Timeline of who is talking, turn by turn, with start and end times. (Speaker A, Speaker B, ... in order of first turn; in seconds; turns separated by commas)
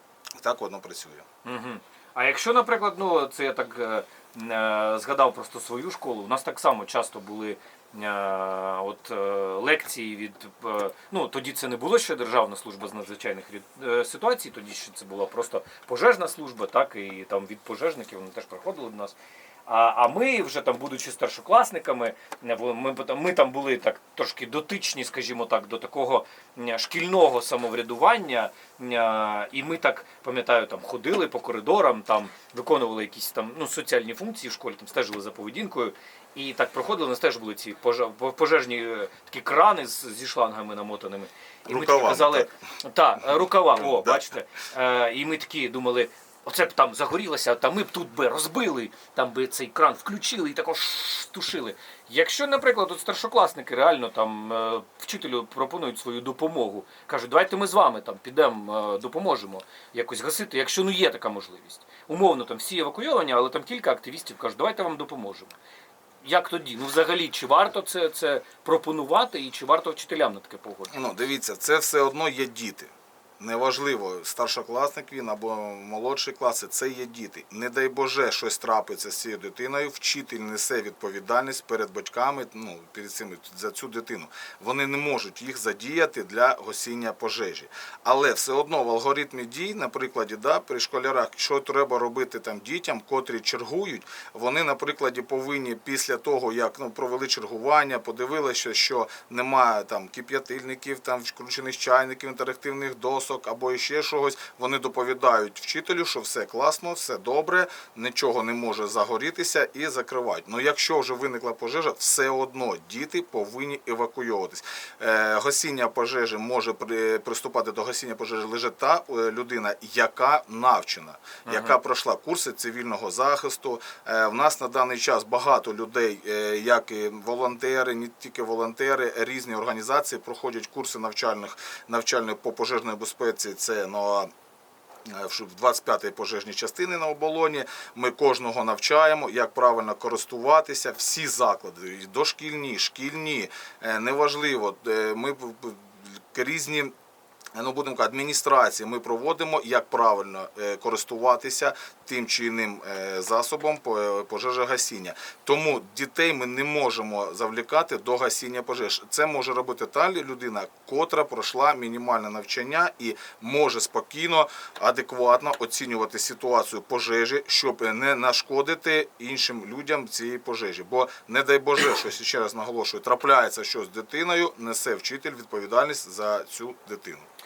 Speaker A: 0.3-1.2, Speaker B: 1.4-65.5, Speaker A: 41.7-42.5, Speaker A: 43.7-44.2, Speaker B: 66.2-70.9, Speaker A: 70.9-134.3, Speaker B: 121.4-121.7, Speaker A: 135.1-146.9, Speaker A: 147.5-177.3